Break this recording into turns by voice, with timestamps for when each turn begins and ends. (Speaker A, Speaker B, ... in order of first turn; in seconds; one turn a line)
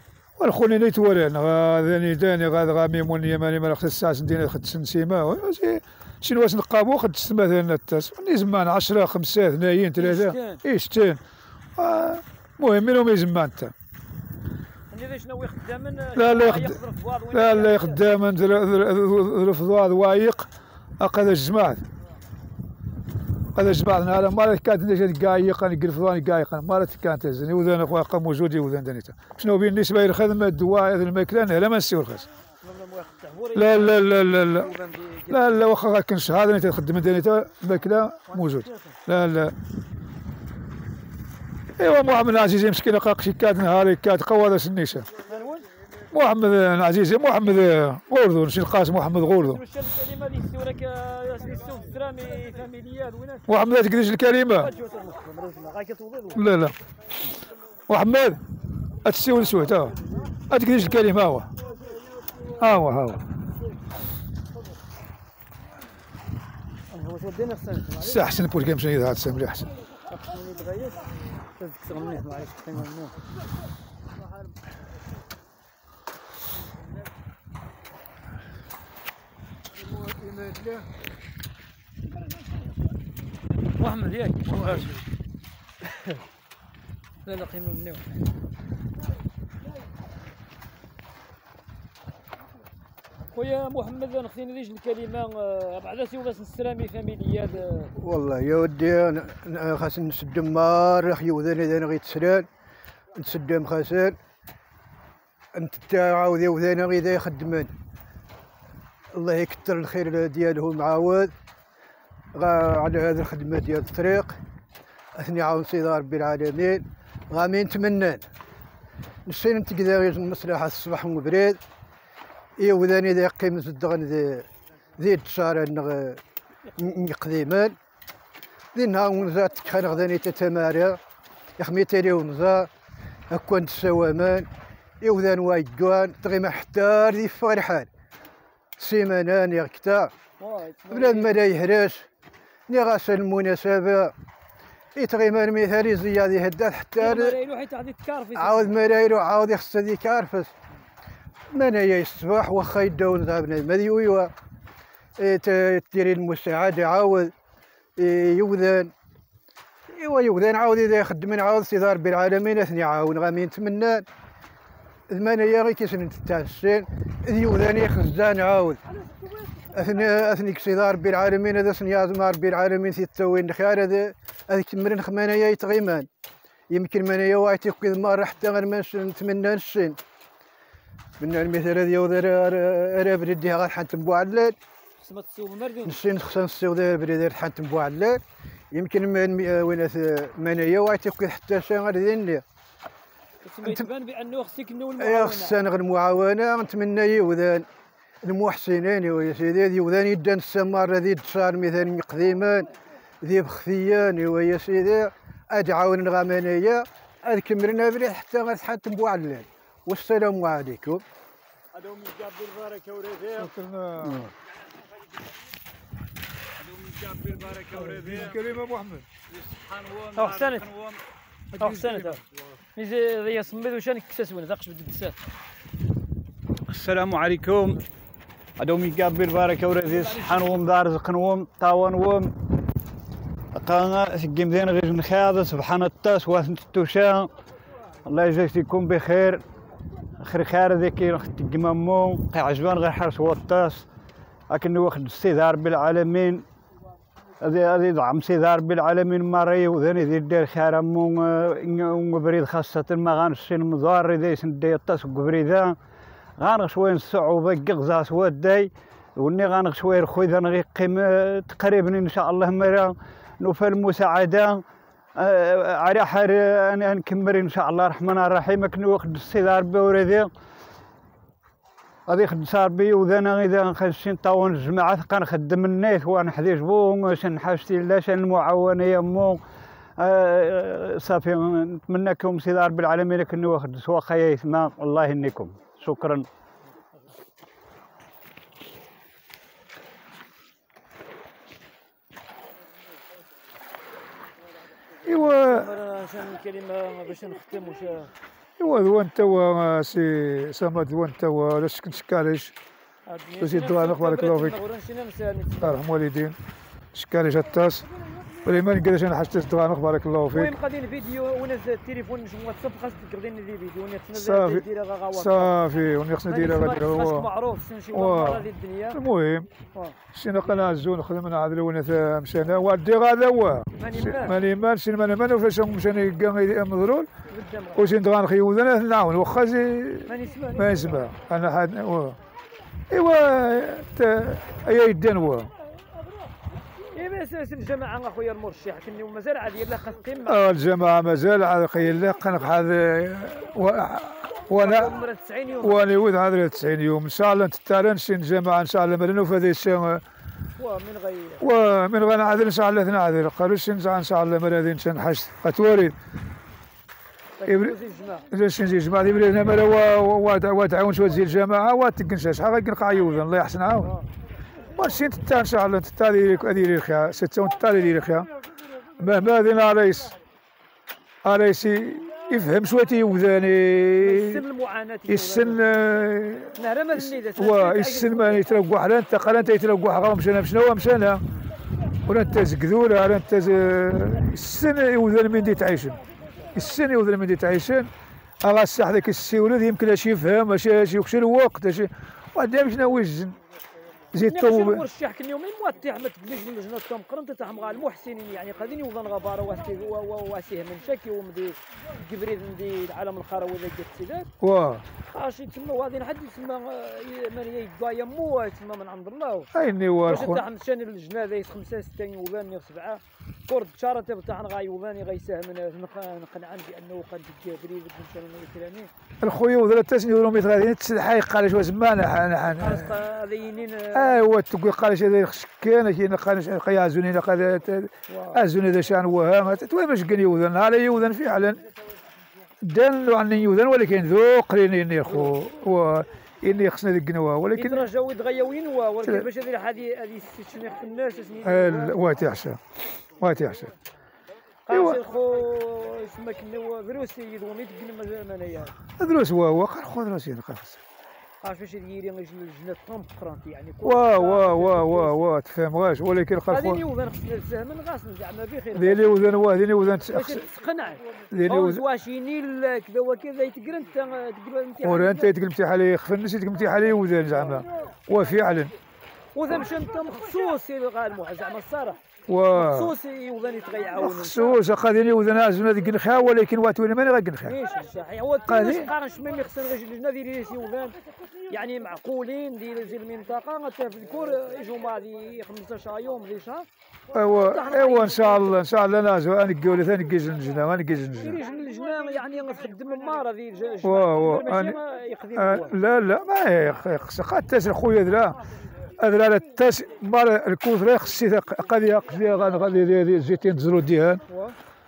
Speaker A: 0.4-11.2
Speaker B: 10.0-10.6
Speaker A: 11.8-13.7
Speaker B: 14.9-18.0
Speaker A: 16.1-21.8
Speaker A: 23.5-32.3
Speaker B: 32.6-35.7
Speaker A: 33.5-34.8
Speaker A: 35.3-39.5
Speaker B: 38.3-39.0
Speaker A: 41.8-45.1
Speaker B: 45.2-45.7
Speaker A: 46.1-49.6
Speaker B: 49.3-53.7
Speaker A: 53.5-54.7
Speaker B: 54.5-56.5
Speaker A: 56.3-56.8
Speaker A: 57.9-58.4
Speaker A: 59.0-61.5
Speaker A: 62.5-63.2
Speaker B: 66.9-68.4
Speaker A: 68.0-69.7
Speaker B: 70.1-73.2
Speaker C: 79.8-80.8
Speaker B: 83.7-85.0
Speaker B: 87.2-88.1
Speaker B: 93.3-97.9
Speaker C: 98.0-102.5
Speaker C: 103.1-104.2
Speaker C: 105.5-107.7
Speaker C: 109.1-111.3
Speaker C: 112.3-114.4
Speaker C: 115.2-118.2
Speaker C: 119.2-121.6
Speaker C: 122.6-126.2
Speaker C: 126.8-127.8
Speaker C: 128.7-131.0
Speaker C: 131.6-132.7
Speaker C: 133.3-134.5
Speaker C: 135.0-137.9
Speaker C: 138.8-140.1
Speaker B: 140.4-141.3
Speaker C: 140.9-142.1
Speaker C: 142.7-144.1
Speaker C: 144.9-147.4
Speaker B: 146.9-148.8
Speaker C: 148.3-150.5
Speaker C: 151.5-154.3
Speaker C: 155.2-157.3
Speaker C: 158.0-158.9
Speaker C: 159.9-164.1
Speaker C: 165.1-168.8
Speaker C: 169.7-176.1
Speaker C: 176.7-180.0
Speaker C: 181.2-184.6
Speaker B: 185.0-186.0
Speaker C: 185.8-192.4
Speaker B: 193.4-195.6
Speaker C: 195.0-197.7
Speaker C: 198.2-202.7
Speaker C: 203.2-211.0
Speaker D: 211.7-213.5
Speaker A: 213.3-214.3
Speaker C: 214.0-214.3
Speaker D: 216.6-218.4
Speaker A: 217.7-219.1
Speaker D: 219.3-221.0
Speaker B: 220.2-220.7
Speaker A: 221.5-222.2
Speaker B: 221.6-222.2
Speaker B: 222.8-225.2
Speaker D: 226.7-227.8
Speaker D: 228.6-232.3
Speaker D: 233.5-237.3
Speaker D: 238.0-239.4
Speaker D: 240.2-243.9
Speaker D: 244.5-246.4
Speaker D: 247.4-255.8
Speaker D: 256.4-264.6
Speaker D: 265.1-270.3
Speaker D: 272.1-279.4
Speaker D: 280.0-286.3
Speaker A: 295.0-295.7
Speaker B: 295.1-298.1
Speaker A: 298.6-302.5
Speaker B: 303.1-305.8
Speaker A: 303.4-304.6
Speaker A: 305.6-306.4
Speaker A: 306.9-307.9
Speaker A: 308.4-310.5
Speaker B: 310.3-315.6
Speaker A: 314.1-317.3
Speaker B: 316.3-319.0
Speaker A: 317.9-319.5
Speaker A: 320.1-327.1
Speaker B: 323.7-324.4
Speaker B: 327.3-327.9
Speaker A: 327.7-332.2
Speaker B: 330.1-331.1
Speaker A: 332.9-335.5
Speaker B: 336.9-340.4
Speaker A: 340.2-345.0
Speaker B: 344.5-345.8
Speaker A: 345.6-350.0
Speaker B: 350.6-351.5
Speaker A: 351.4-355.9
Speaker B: 357.4-358.3
Speaker A: 357.4-357.8
Speaker A: 358.3-363.9
Speaker B: 363.8-364.1
Speaker A: 364.7-368.3
Speaker A: 369.0-370.2
Speaker A: 371.2-374.4
Speaker B: 374.0-375.6
Speaker A: 375.1-381.2
Speaker B: 376.6-378.5
Speaker A: 382.0-386.0
Speaker A: 386.5-387.9
Speaker A: 388.4-393.4
Speaker A: 394.1-394.9
Speaker B: 394.2-404.3
Speaker A: 404.4-404.8
Speaker B: 405.1-409.5
Speaker A: 409.5-410.4
Speaker B: 410.1-418.9
Speaker A: 419.2-423.0
Speaker B: 422.6-424.3
Speaker A: 423.9-431.7
Speaker B: 428.1-428.4
Speaker A: 432.6-437.9
Speaker B: 435.1-435.3
Speaker B: 437.5-442.1
Speaker A: 441.4-443.7
Speaker B: 444.7-448.7
Speaker A: 444.7-445.0
Speaker A: 449.0-450.8
Speaker B: 451.4-455.2
Speaker A: 453.8-456.8
Speaker B: 456.5-459.4
Speaker A: 458.7-460.4
Speaker B: 460.1-465.3
Speaker A: 461.3-461.8
Speaker A: 464.8-468.7
Speaker B: 467.3-467.6
Speaker B: 469.3-474.6
Speaker A: 472.3-472.9
Speaker A: 474.0-477.6
Speaker B: 477.4-486.6
Speaker A: 478.4-478.9
Speaker A: 487.1-491.4
Speaker B: 487.4-488.6
Speaker B: 491.2-495.8
Speaker A: 493.8-494.8
Speaker A: 495.3-498.4
Speaker A: 499.0-504.2
Speaker B: 504.3-504.5